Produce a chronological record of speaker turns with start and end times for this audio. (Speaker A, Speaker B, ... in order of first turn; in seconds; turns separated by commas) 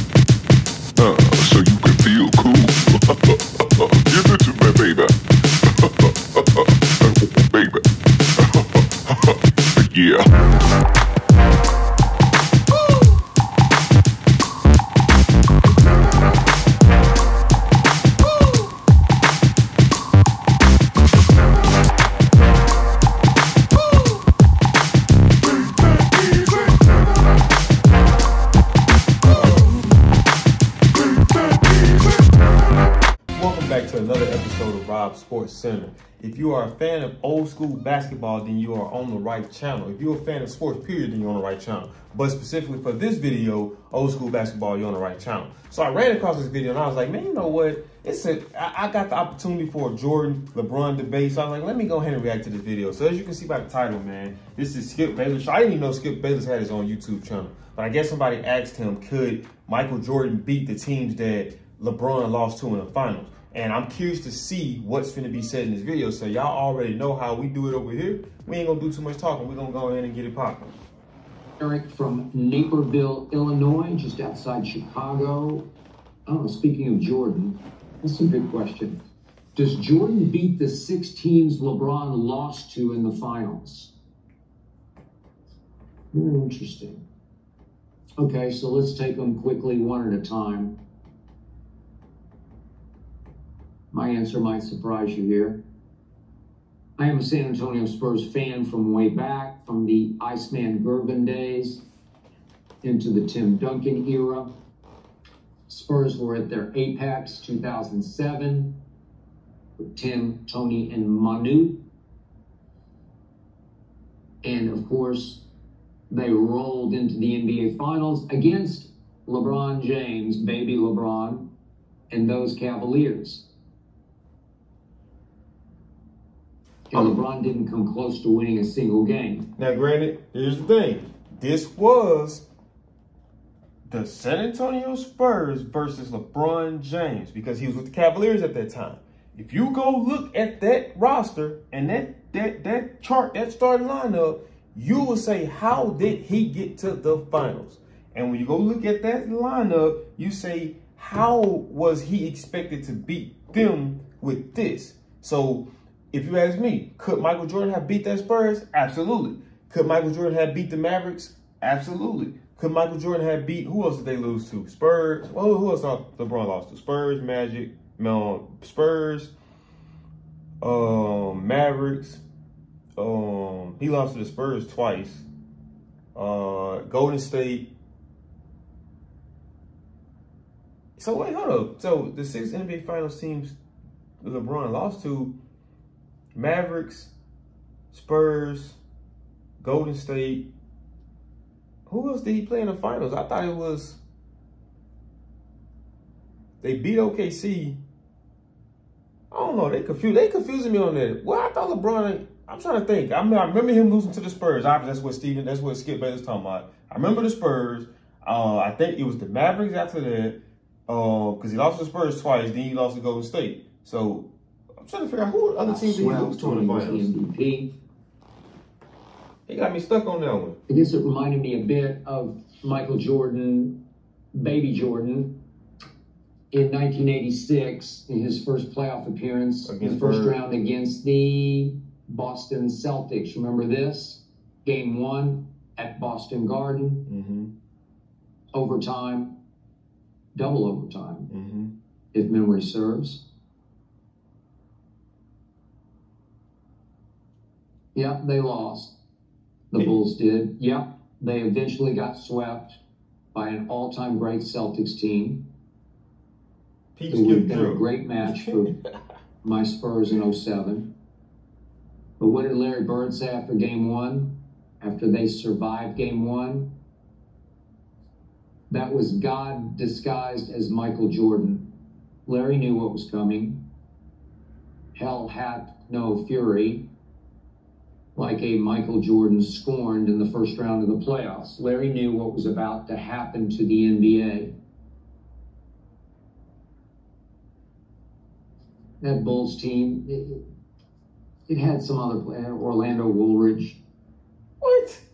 Speaker A: 1.0-7.8, Speaker A: 8.4-10.5, Speaker B: 33.4-70.8, Speaker C: 71.6-75.7, Speaker C: 76.3-79.0, Speaker C: 79.5-83.9, Speaker C: 86.1-87.0, Speaker C: 88.2-90.8, Speaker C: 93.9-95.6, Speaker C: 97.0-101.8, Speaker C: 102.8-104.5, Speaker C: 105.7-108.7, Speaker C: 109.9-111.8, Speaker C: 114.4-115.4, Speaker C: 116.1-121.5, Speaker C: 122.1-123.5, Speaker C: 126.9-129.5, Speaker B: 129.6-132.5, Speaker B: 133.9-169.3, Speaker B: 170.6-172.2, Speaker B: 173.0-175.3, Speaker B: 176.2-177.7, Speaker B: 181.0-183.6, Speaker B: 184.2-185.3, Speaker B: 186.3-187.1, Speaker B: 187.9-188.8, Speaker B: 189.6-190.5, Speaker B: 191.9-194.0, Speaker B: 196.6-197.8, Speaker B: 199.3-214.3, Speaker B: 214.8-217.1, Speaker C: 215.6-217.7, Speaker B: 219.5-220.6, Speaker C: 220.7-223.7, Speaker C: 224.3-225.3, Speaker C: 226.5-237.1, Speaker B: 229.7-230.4, Speaker B: 237.1-237.5, Speaker C: 238.5-239.3, Speaker C: 240.3-241.3, Speaker B: 241.3-241.7, Speaker C: 242.1-243.2, Speaker C: 247.9-248.9, Speaker C: 249.7-252.8, Speaker C: 253.3-255.4, Speaker B: 257.0-258.7, Speaker C: 257.1-258.7, Speaker C: 259.4-260.9, Speaker C: 262.2-266.7, Speaker C: 268.7-271.6, Speaker C: 272.2-273.6, Speaker C: 274.9-276.8, Speaker C: 278.1-284.5, Speaker C: 289.0-290.4, Speaker C: 291.5-293.8, Speaker B: 294.6-295.0